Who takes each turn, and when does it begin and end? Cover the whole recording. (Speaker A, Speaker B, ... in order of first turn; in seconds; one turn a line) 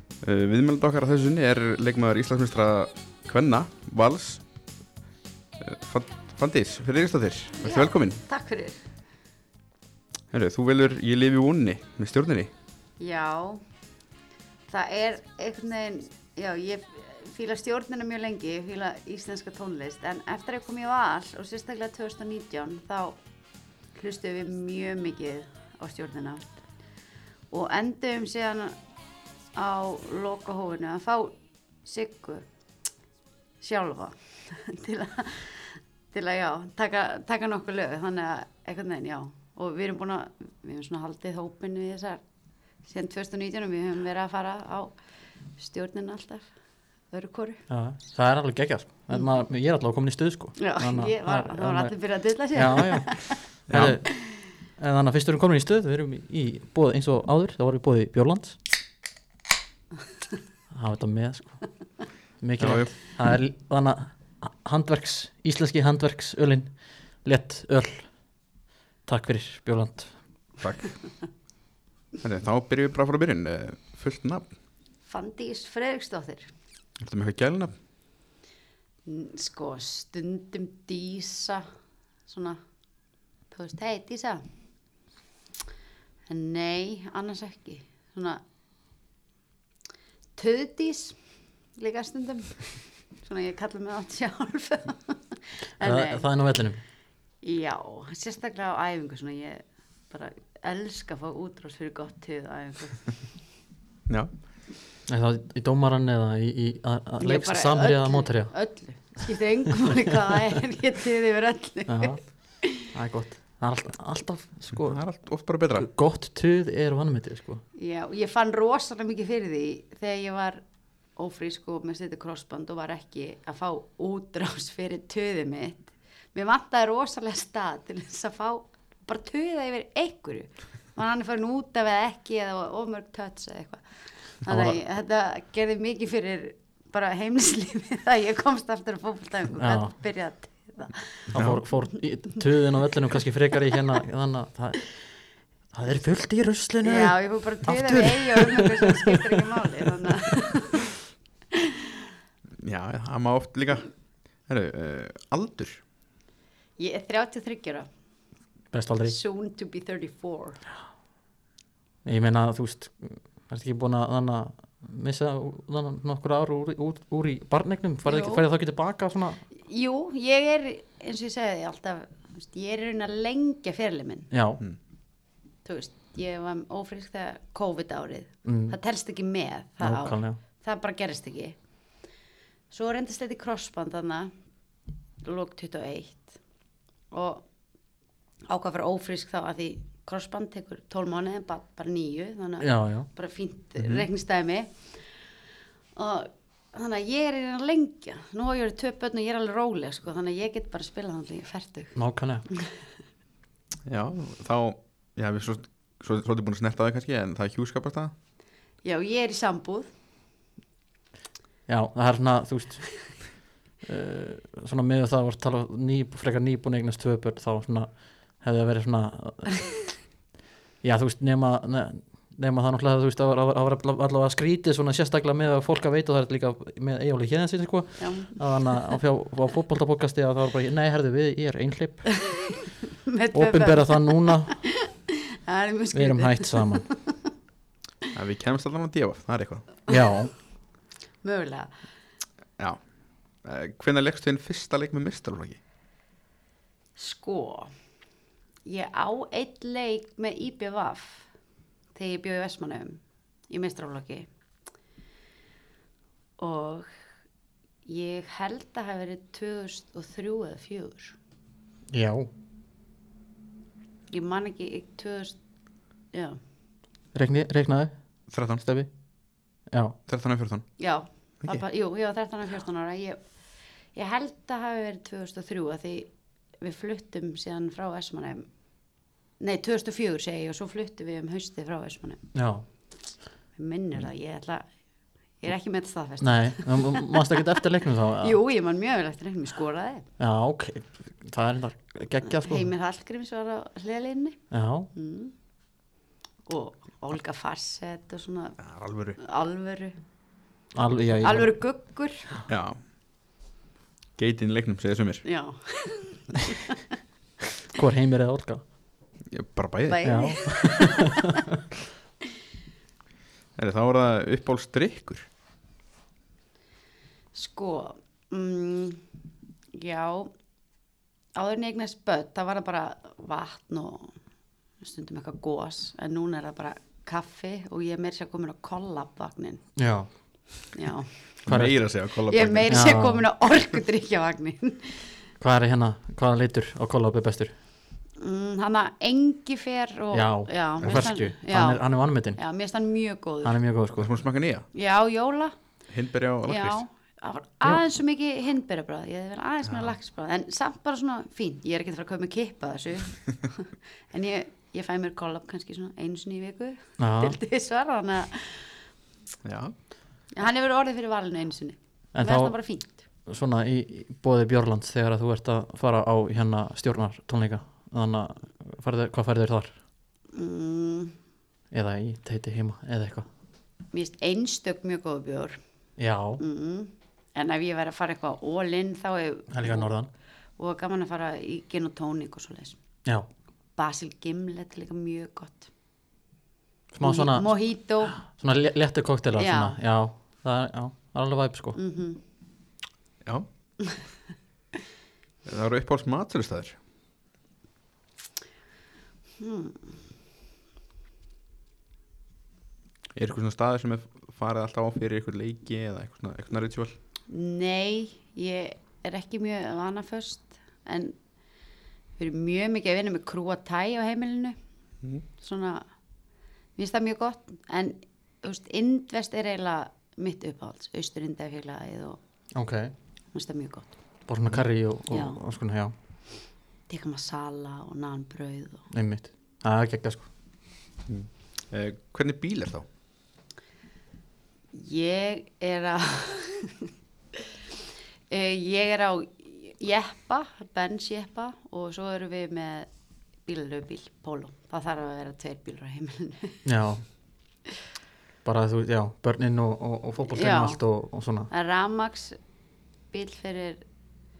Speaker A: 0.2-4.4
Speaker A: 5.6-8.2
Speaker B: 7.6-8.8
Speaker A: 10.3-12.5
Speaker B: 13.0-13.6
Speaker B: 14.7-23.2
Speaker B: 23.9-26.4
Speaker B: 27.5-28.8
Speaker B: 29.5-32.4
Speaker B: 33.6-42.2
Speaker B: 42.8-45.0
Speaker B: 45.6-46.5
Speaker B: 47.1-47.6
Speaker C: 47.7-51.9
Speaker B: 50.6-53.3
Speaker C: 52.5-58.6
Speaker A: 53.7-54.0
Speaker C: 60.7-61.6
Speaker C: 62.4-66.7
Speaker A: 62.6-62.9
Speaker C: 67.2-68.1
Speaker C: 69.0-70.1
Speaker A: 70.6-71.0
Speaker A: 72.2-74.5
Speaker B: 75.1-76.5
Speaker A: 77.0-77.7
Speaker B: 79.0-81.7
Speaker B: 82.3-82.6
Speaker B: 83.5-84.4
Speaker B: 86.3-88.4
Speaker B: 90.3-91.2
Speaker B: 91.8-96.3
Speaker C: 95.8-96.8
Speaker B: 97.4-103.1
Speaker C: 105.1-108.6
Speaker B: 107.2-112.9
Speaker C: 111.9-115.0
Speaker A: 114.7-115.9
Speaker C: 115.8-117.6
Speaker B: 117.7-120.6
Speaker B: 121.2-133.8
Speaker B: 134.4-141.2
Speaker C: 134.4-134.8
Speaker C: 139.6-139.9
Speaker C: 141.3-145.0
Speaker A: 141.3-141.6
Speaker C: 145.7-149.5
Speaker B: 146.8-150.8
Speaker A: 152.6-153.9
Speaker A: 154.5-155.8
Speaker B: 156.8-157.9
Speaker C: 158.7-159.2
Speaker B: 159.0-160.6
Speaker C: 162.0-169.4
Speaker B: 168.1-168.4
Speaker B: 169.6-174.3
Speaker C: 174.3-174.6
Speaker B: 175.6-181.6
Speaker C: 178.4-178.8
Speaker C: 179.8-180.4
Speaker B: 182.7-184.3
Speaker B: 185.2-186.3
Speaker B: 187.1-187.4
Speaker B: 188.5-194.7
Speaker C: 192.6-193.1
Speaker B: 195.9-201.9
Speaker C: 201.9-202.5
Speaker A: 203.8-208.1
Speaker B: 208.8-209.9
Speaker C: 211.7-213.1
Speaker C: 213.8-219.7
Speaker C: 220.8-232.3
Speaker B: 228.0-228.8
Speaker B: 232.2-234.9
Speaker C: 233.3-234.6
Speaker B: 235.4-237.0
Speaker C: 235.9-236.8
Speaker A: 238.1-239.7
Speaker C: 239.9-240.3
Speaker B: 241.2-241.7
Speaker A: 242.6-242.8
Speaker A: 243.4-245.6
Speaker B: 246.9-247.7
Speaker B: 248.6-251.3
Speaker B: 251.9-254.3
Speaker B: 256.4-256.9
Speaker B: 257.8-261.1
Speaker C: 261.9-262.3
Speaker B: 264.1-265.4
Speaker B: 266.1-266.4
Speaker C: 267.1-267.9
Speaker A: 268.3-268.6
Speaker C: 268.6-268.9
Speaker C: 269.7-269.9
Speaker A: 270.1-270.6
Speaker B: 270.8-273.2
Speaker B: 273.9-276.1
Speaker B: 276.6-278.5
Speaker B: 279.4-282.2
Speaker C: 282.3-282.6
Speaker B: 283.6-284.7
Speaker B: 285.4-287.4
Speaker C: 286.2-288.4
Speaker B: 288.2-290.0
Speaker C: 290.2-292.7
Speaker B: 292.3-294.4
Speaker C: 294.5-294.9
Speaker B: 294.9-295.3
Speaker B: 296.4-298.6
Speaker A: 298.6-299.2
Speaker B: 299.2-299.9
Speaker C: 300.7-301.5
Speaker B: 301.2-302.4
Speaker A: 302.5-302.8
Speaker A: 304.2-305.2
Speaker B: 305.2-306.8
Speaker C: 307.7-308.6
Speaker A: 309.3-310.1
Speaker B: 309.9-311.4
Speaker C: 310.0-311.4
Speaker A: 313.6-315.3
Speaker B: 317.3-319.0
Speaker B: 319.7-320.3
Speaker B: 321.3-324.1
Speaker B: 324.8-329.6
Speaker C: 329.8-330.1
Speaker B: 330.7-331.1
Speaker A: 331.4-332.9
Speaker C: 331.4-331.8
Speaker B: 332.3-335.0
Speaker C: 332.7-333.2
Speaker C: 335.4-337.5
Speaker B: 338.2-341.8
Speaker C: 340.1-342.4
Speaker B: 342.3-343.6
Speaker C: 343.4-344.1
Speaker A: 344.0-344.7
Speaker B: 344.7-345.5
Speaker A: 345.9-346.8
Speaker B: 346.4-358.7
Speaker A: 349.7-349.9
Speaker C: 357.0-357.4
Speaker A: 359.4-359.7
Speaker B: 360.3-363.0
Speaker C: 362.1-362.6
Speaker C: 363.2-369.8
Speaker B: 370.3-371.1
Speaker C: 371.7-373.3
Speaker B: 373.9-375.6
Speaker C: 376.0-376.4
Speaker B: 376.4-379.9
Speaker C: 379.5-380.1
Speaker B: 380.6-382.8
Speaker B: 383.8-385.7
Speaker C: 386.9-387.5
Speaker B: 387.0-388.2
Speaker C: 388.1-391.8
Speaker B: 389.4-389.8
Speaker B: 391.7-392.2
Speaker A: 395.4-396.8
Speaker B: 399.4-399.9
Speaker A: 403.1-406.9
Speaker B: 407.3-411.1
Speaker B: 412.2-414.6
Speaker B: 415.4-415.9
Speaker B: 416.8-422.2
Speaker C: 422.5-422.9
Speaker B: 423.3-423.9
Speaker C: 424.3-425.9
Speaker B: 425.1-425.4
Speaker B: 426.9-428.8
Speaker C: 428.9-430.3
Speaker A: 431.1-432.9
Speaker B: 434.7-437.4
Speaker B: 438.3-442.9
Speaker B: 443.4-446.6
Speaker C: 446.6-447.0
Speaker C: 448.4-451.5
Speaker B: 450.3-450.8
Speaker B: 451.5-452.4
Speaker B: 453.1-453.8